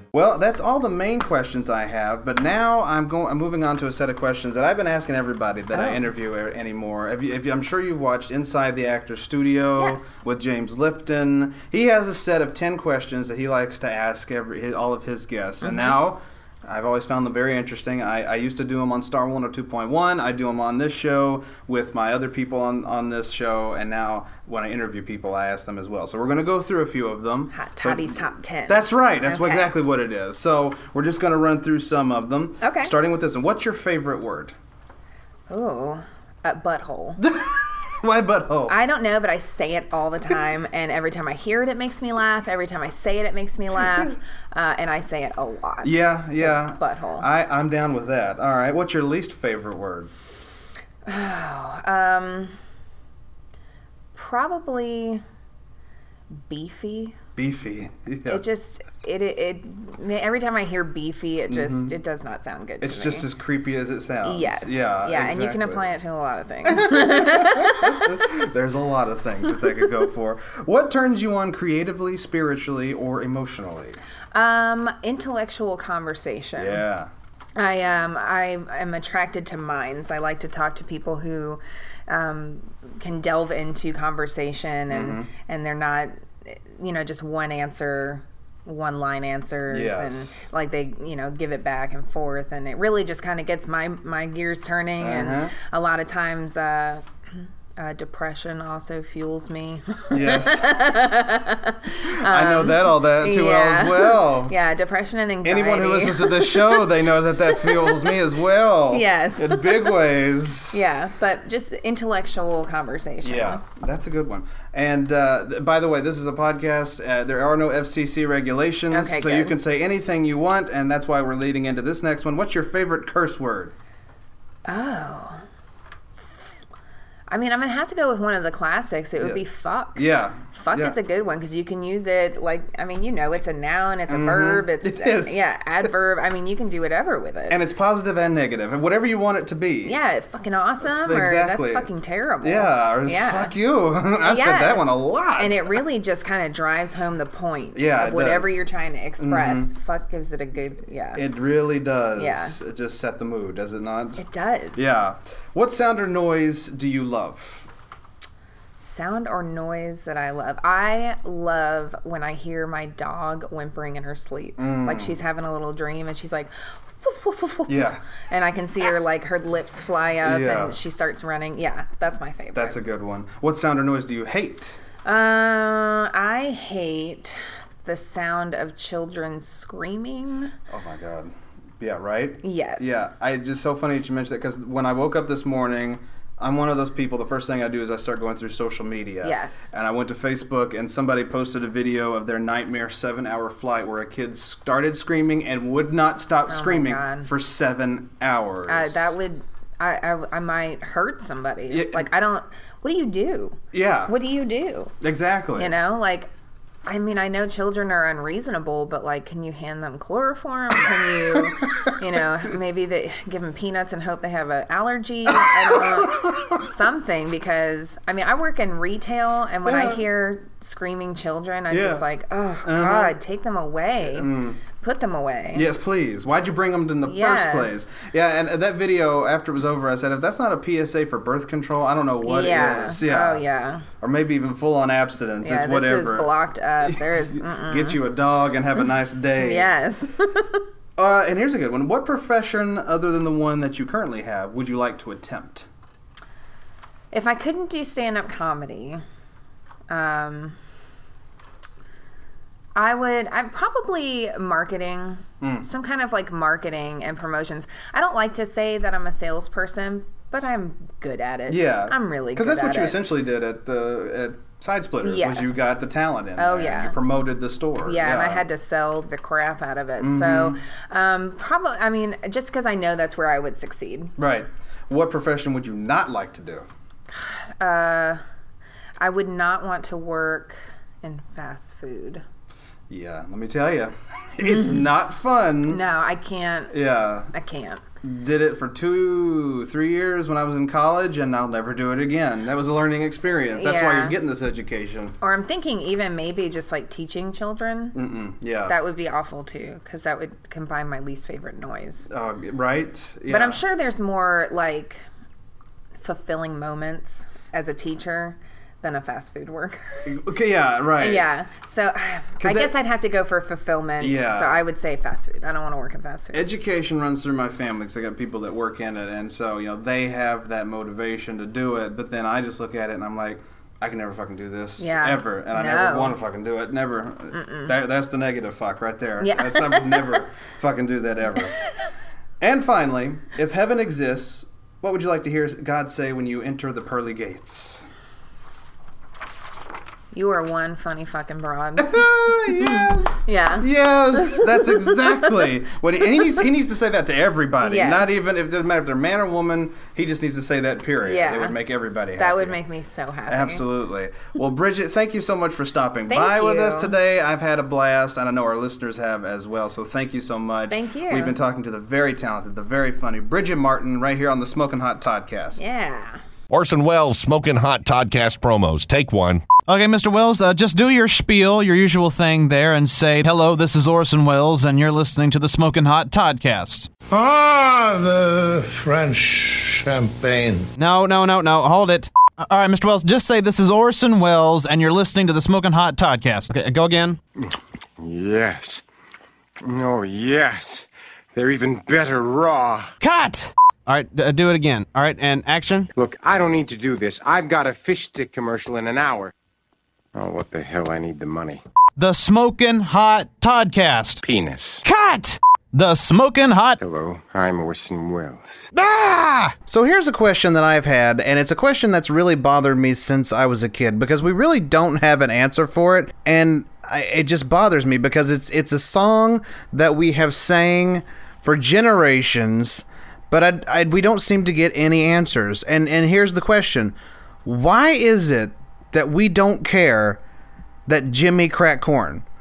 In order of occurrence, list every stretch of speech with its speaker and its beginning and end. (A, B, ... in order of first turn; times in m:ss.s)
0:00.1-0:34.5 A
0:05.7-0:06.0 B
0:09.8-0:10.2 B
0:15.6-0:16.0 B
0:27.5-0:29.8 B
0:32.6-0:32.9 B
0:35.5-0:37.2 B
0:37.2-0:38.8 A
0:38.7-0:47.3 B
0:45.8-0:50.1 A
0:51.1-0:52.5 B
0:54.2-0:55.2 B
0:56.3-0:57.2 B
0:57.4-0:58.4 A
0:58.3-1:03.3 B
1:01.5-1:02.0 A
1:02.8-1:05.9 A
1:04.2-1:08.1 B
1:06.6-1:14.0 A
1:14.3-1:16.8 B
1:16.6-1:17.1 A
1:17.6-1:37.0 B
1:24.9-1:25.3 A
1:29.7-1:30.4 A
1:35.0-1:35.5 A
1:37.8-1:48.1 B
1:40.1-1:40.7 A
1:42.2-1:44.5 A
1:45.4-1:50.8 A
1:48.9-1:50.0 B
1:50.7-1:53.6 B
1:53.2-2:03.7 A
1:58.9-1:59.6 B
2:04.7-2:05.4 B
2:07.3-2:17.6 B
2:10.0-2:11.0 A
2:14.1-2:15.4 A
2:17.5-2:20.0 A
2:19.8-2:23.5 B
2:20.8-2:21.9 A
2:22.4-2:25.8 A
2:24.2-2:31.2 B
2:27.8-2:28.6 A
2:29.2-2:29.7 A
2:31.2-2:34.2 A
2:32.2-2:32.6 B
2:34.2-2:34.8 B
2:34.8-2:37.7 A
2:38.8-2:52.8 B
2:44.6-2:45.2 A
2:47.7-2:48.0 A
2:50.2-2:50.8 A
2:52.5-2:54.8 A
2:55.0-3:00.5 B
3:00.7-3:19.2 A
3:02.4-3:03.1 B
3:09.2-3:09.7 B
3:16.5-3:17.3 B
3:18.7-3:24.9 B
3:21.7-3:22.1 A
3:23.7-3:24.1 A
3:25.0-3:25.7 A
3:25.6-3:26.3 B
3:26.9-3:45.7 B
3:35.9-3:36.3 A
3:39.6-3:40.0 A
3:41.7-3:42.0 A
3:42.6-3:43.2 A
3:44.0-3:44.6 A
3:45.5-3:53.4 A
3:47.0-3:47.9 B
3:52.2-3:53.9 B
3:54.0-3:59.7 A
3:55.4-3:58.0 B
3:59.4-4:00.6 B
4:01.0-4:05.7 A
4:07.1-4:09.0 B
4:09.9-4:10.6 B
4:12.8-4:23.0 B
4:15.4-4:15.7 A
4:21.5-4:28.4 A
4:25.0-4:25.6 B
4:26.4-4:27.0 B
4:27.8-4:34.1 B
4:30.0-4:30.6 A
4:34.2-4:36.7 A
4:37.1-4:38.2 B
4:39.0-4:42.2 B
4:42.9-4:45.8 A
4:44.4-4:44.9 B
4:45.7-4:46.8 B
4:46.7-4:47.3 A
4:47.3-4:47.8 B
4:48.0-4:55.2 A
4:53.5-4:54.2 B
4:55.2-4:58.0 B
4:57.9-4:58.7 A
4:58.7-5:02.1 B
5:02.1-5:03.6 A
5:03.3-5:05.0 B
5:06.0-5:10.1 B
5:10.1-5:11.3 A
5:11.0-5:16.4 B
5:12.4-5:12.7 A
5:14.0-5:14.6 A
5:16.3-5:31.5 A
5:24.8-5:26.2 B
5:27.3-5:27.8 B
5:29.2-5:30.2 B
5:32.4-5:37.8 A
5:40.1-5:45.1 B
5:41.8-5:52.6 A
5:47.6-5:48.2 B
5:51.0-5:51.6 B
5:52.2-5:53.6 B
5:53.3-6:05.7 A
5:56.1-5:57.0 B
6:00.7-6:01.4 B
6:05.6-6:06.2 B
6:06.5-6:09.4 C
6:09.7-6:16.9 D
6:17.1-6:20.7 E
6:20.8-6:27.2 D
6:27.4-6:28.8 F
6:29.6-6:32.9 F
6:33.0-6:35.9 D
6:36.0-6:39.3 F
6:40.1-6:41.6 F
6:42.0-6:44.2 D
6:44.2-6:44.8 F
6:44.8-6:46.8 D
6:46.8-6:48.7 F
6:48.7-6:49.6 D
6:49.7-7:10.2 A
7:10.9-7:12.2 A